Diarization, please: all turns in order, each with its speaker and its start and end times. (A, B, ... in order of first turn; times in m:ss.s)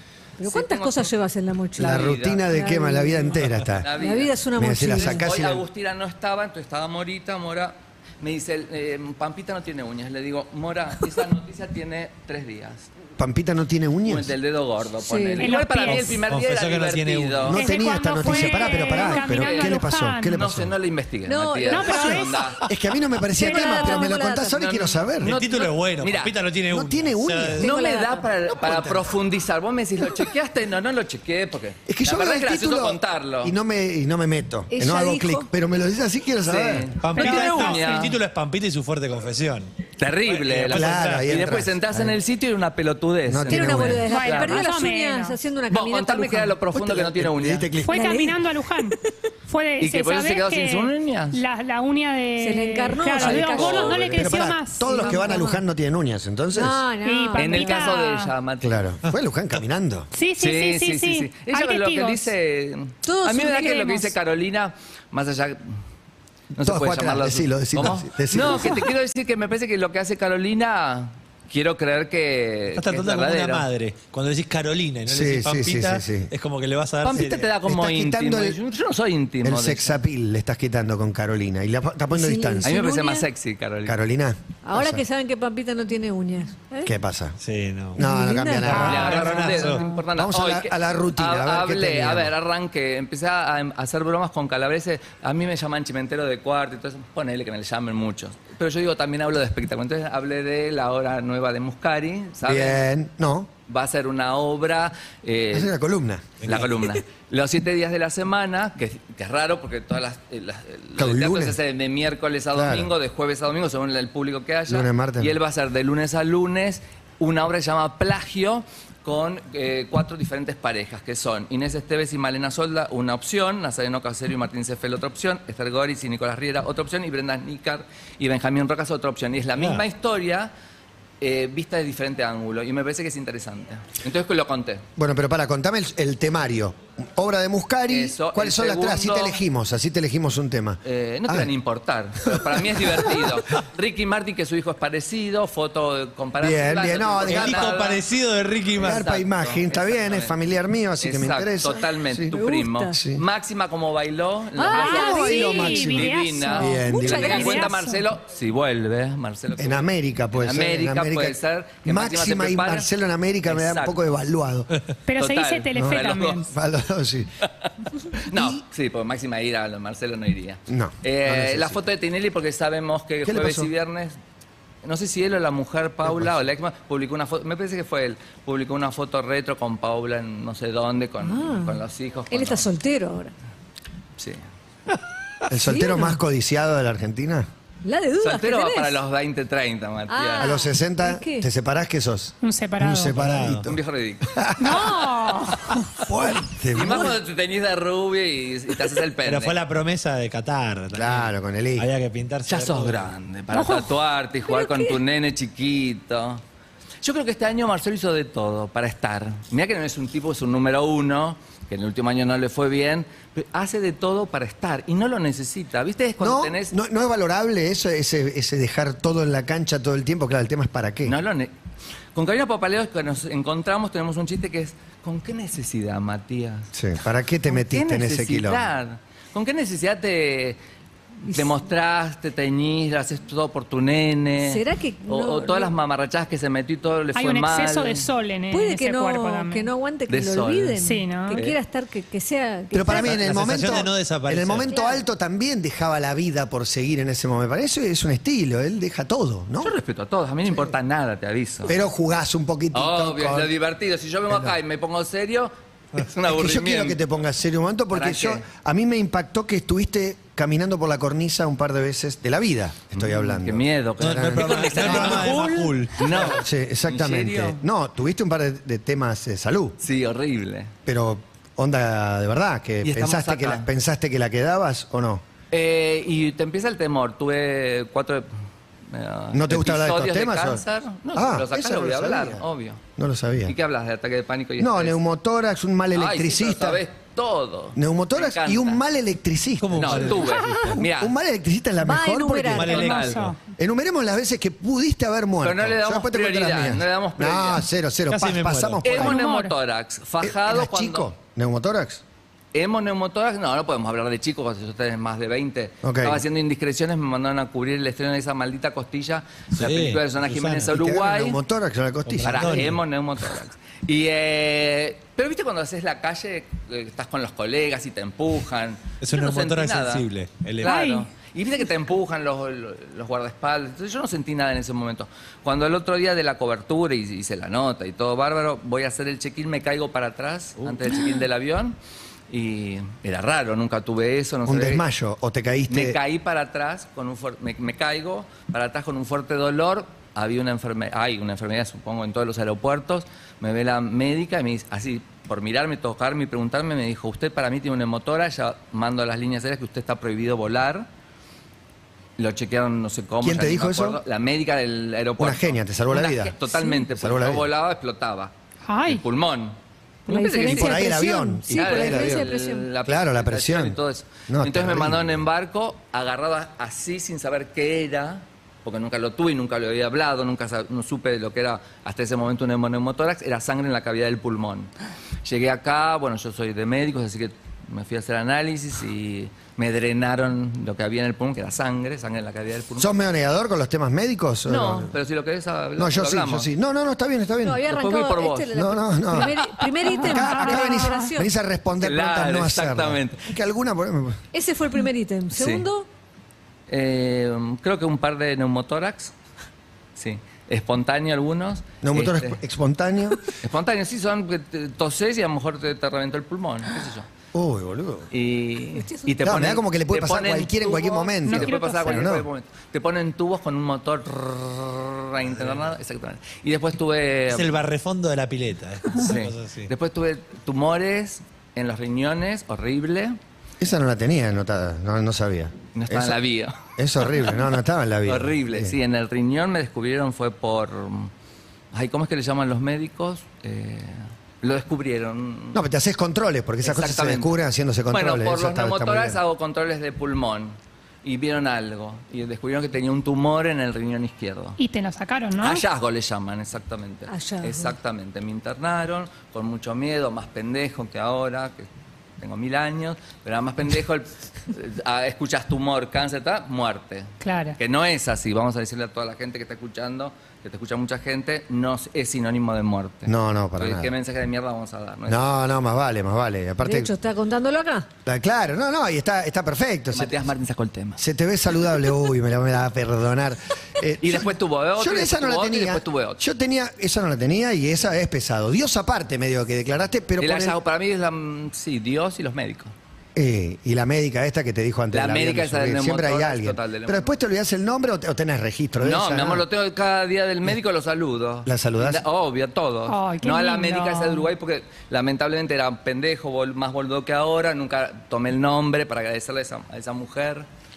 0:00.4-0:05.2 A
0:00.4-0:01.1 B
0:01.8-0:02.4 B
0:01.8-0:03.9 C
0:03.8-0:12.9 B
0:04.6-0:05.6 C
0:13.2-0:14.3 C
0:14.0-0:17.6 B
0:15.0-0:15.9 A
0:15.4-0:16.2 D
0:15.9-0:17.6 E
0:17.5-0:20.7 C
0:17.5-0:20.4 D
0:17.7-0:19.0 A
0:18.7-0:22.6 B
0:21.2-0:22.3 A
0:21.6-0:22.6 D
0:21.9-0:25.3 C
0:23.2-0:24.8 A
0:23.4-0:24.2 D
0:24.5-0:26.3 B
0:25.2-0:27.7 E
0:26.7-0:27.7 C
0:27.6-0:28.3 A
0:27.6-0:33.6 B
0:28.5-0:29.1 C
0:31.9-0:36.9 C
0:34.7-0:35.5 A
0:36.4-0:38.1 B
0:37.0-0:39.7 E
0:37.2-0:38.1 D
0:40.0-0:44.6 B
0:40.3-0:41.3 E
0:40.7-0:42.2 C
0:43.3-0:44.1 C
0:43.5-0:46.6 A
0:44.1-0:45.4 D
0:45.7-0:47.7 B
0:46.7-0:48.1 C
0:47.8-0:55.1 D
0:47.9-0:48.8 A
0:49.8-0:51.4 B
0:52.4-0:54.1 A
0:53.2-0:54.3 B
0:53.8-0:56.8 C
0:54.8-0:55.6 A
0:56.5-0:57.8 A
0:57.0-0:58.3 D
0:57.4-0:58.9 B
0:58.6-1:00.1 C
1:00.1-1:02.3 D
1:00.4-1:05.8 B
1:03.0-1:04.0 A
1:03.6-1:04.1 D
1:06.5-1:13.6 B
1:06.6-1:08.9 C
1:12.7-1:17.5 E
1:15.1-1:16.3 C
1:17.0-1:20.0 B
1:17.2-1:18.6 C
1:19.4-1:22.8 C
1:22.1-1:23.3 A
1:22.6-1:24.0 B
1:23.8-1:25.0 C
1:24.6-1:26.9 A
1:26.8-1:27.4 C
1:27.4-1:28.0 E
1:27.9-1:29.3 C
1:28.0-1:29.0 A
1:28.6-1:29.8 E
1:28.7-1:42.9 B
1:30.1-1:32.3 C
1:42.4-1:43.5 C
1:43.7-1:45.7 B
1:45.5-1:46.6 C
1:46.4-2:10.5 B
1:51.0-1:51.6 C
1:52.5-1:52.9 C
1:54.7-1:55.3 C
2:09.6-2:09.8 E
2:11.2-2:14.8 B
2:15.0-2:21.5 C
2:17.9-2:19.4 B
2:20.8-2:28.0 B
2:22.2-2:23.3 C
2:26.4-2:27.7 C
2:27.2-2:29.0 E
2:28.8-2:30.4 B
2:28.8-2:32.4 C
2:31.0-2:42.9 B
2:32.3-2:33.0 A
2:32.9-2:33.2 C
2:34.6-2:35.7 A
2:34.7-2:38.0 D
2:34.9-2:37.5 C
2:36.7-2:37.8 A
2:39.6-2:44.7 C
2:43.4-2:44.0 B
2:45.1-2:46.5 D
2:45.2-2:46.5 B
2:45.7-2:47.3 C
2:47.6-2:54.1 B
2:48.3-2:48.6 C
2:50.7-2:51.9 C
2:53.2-2:53.7 C
2:54.8-3:02.6 B
3:01.2-3:01.8 A
3:02.3-3:03.3 A
3:04.2-3:04.4 B
3:05.5-3:07.5 C
3:05.6-3:06.2 A
3:07.8-3:09.0 A
3:08.2-3:10.6 B
3:10.1-3:11.5 A
3:10.4-3:15.0 C
3:12.4-3:13.2 D
3:13.1-3:13.7 E
3:13.6-3:14.5 B
3:14.6-3:15.9 D
3:16.0-3:17.1 C
3:16.7-3:19.6 B
3:16.8-3:17.1 A
3:19.2-3:23.1 E
3:20.9-3:21.9 C
3:22.5-3:26.4 B
3:23.5-3:23.9 D
3:24.4-3:25.0 A
3:27.0-3:36.7 B
3:36.2-3:41.2 C
3:41.0-3:41.5 B
3:42.1-3:46.7 B
3:46.7-3:48.7 C
3:47.5-3:50.6 B
3:51.2-3:58.1 B
3:51.3-3:51.5 A
3:54.4-3:55.7 A
3:57.1-3:59.7 D
3:58.5-4:03.9 A
4:00.1-4:00.8 B
4:00.8-4:01.4 D
4:01.3-4:01.6 B
4:02.7-4:09.7 C
4:02.8-4:04.7 E
4:04.7-4:05.0 A
4:09.6-4:11.8 B
4:11.6-4:13.5 C
4:12.7-4:17.0 B
4:16.2-4:25.4 C
4:17.9-4:18.4 B
4:22.9-4:27.6 B
4:24.0-4:26.3 E
4:26.1-4:29.8 C
4:29.8-4:30.7 B
4:30.8-4:35.2 C
4:32.8-4:33.7 B
4:35.5-4:38.3 B
4:38.9-4:42.8 B
4:39.3-4:40.6 C
4:41.1-4:42.4 C
4:43.0-4:43.6 C
4:43.4-4:45.0 B
4:44.6-4:46.8 C
4:45.9-4:48.8 B
4:47.7-4:52.7 C
4:49.6-4:50.5 E
4:49.8-4:51.1 B
4:50.3-4:50.8 A
4:51.8-4:53.0 A
4:52.5-4:53.3 E
4:52.6-4:53.3 B
4:52.7-4:53.4 D
4:53.6-4:59.2 C
4:55.4-4:57.6 B
4:58.1-4:58.9 E
4:58.8-5:01.1 B
4:58.9-4:59.6 D
5:00.2-5:02.0 C
5:02.5-5:11.4 B
5:05.8-5:06.2 C
5:09.5-5:10.7 E
5:10.7-5:12.7 C
5:12.0-5:12.8 E
5:12.2-5:20.1 B
5:19.0-5:20.8 E
5:20.6-5:31.8 B
5:20.6-5:21.1 D
5:32.3-5:34.8 B
5:34.4-5:36.0 C
5:35.7-5:50.9 B
5:52.2-5:58.3 B
5:53.2-5:54.0 C
5:55.2-5:56.4 C
5:56.9-5:57.5 C
5:58.7-5:59.0 D
5:58.8-6:00.8 B
6:00.1-6:02.7 A
6:00.2-6:01.1 D
6:00.4-6:02.3 C
6:01.5-6:14.7 B
6:02.8-6:05.2 C
6:15.2-6:23.1 B
6:22.8-6:24.9 C
6:24.5-6:26.5 B
6:25.8-6:27.6 C
6:27.4-6:31.3 A
6:27.7-6:28.5 B
6:28.5-6:34.2 C
6:29.1-6:29.8 B
6:30.1-6:31.0 D
6:31.8-6:33.2 B
6:34.3-6:35.9 A
6:35.3-6:35.6 B
6:36.7-6:39.1 B
6:40.0-6:42.4 B
6:41.8-6:43.2 C
6:43.3-6:47.0 B
6:47.3-6:48.1 C
6:48.1-6:57.6 B
6:48.7-6:49.1 A
6:49.2-6:52.2 C
6:51.3-6:52.2 D
6:57.3-6:59.7 E
6:59.0-7:03.2 B
7:03.6-7:06.2 C
7:05.7-7:07.4 B
7:06.8-7:08.7 C
7:08.0-7:11.1 B
7:11.7-7:15.6 B
7:15.5-7:19.2 C
7:16.6-7:17.4 B
7:17.9-7:24.6 B
7:24.6-7:25.6 D
7:25.4-7:31.7 B
7:27.1-7:27.7 A
7:32.2-7:45.3 B
7:37.2-7:37.6 D
7:43.0-7:43.9 C
7:45.1-7:46.9 C
7:46.6-7:47.9 A
7:48.0-7:50.2 C
7:49.9-7:51.0 B
7:51.0-8:00.6 C
7:54.0-7:56.2 B
8:00.2-8:02.7 B
8:03.1-8:09.4 C
8:04.9-8:07.1 B
8:08.8-8:20.5 B
8:11.4-8:12.0 C
8:12.9-8:14.3 D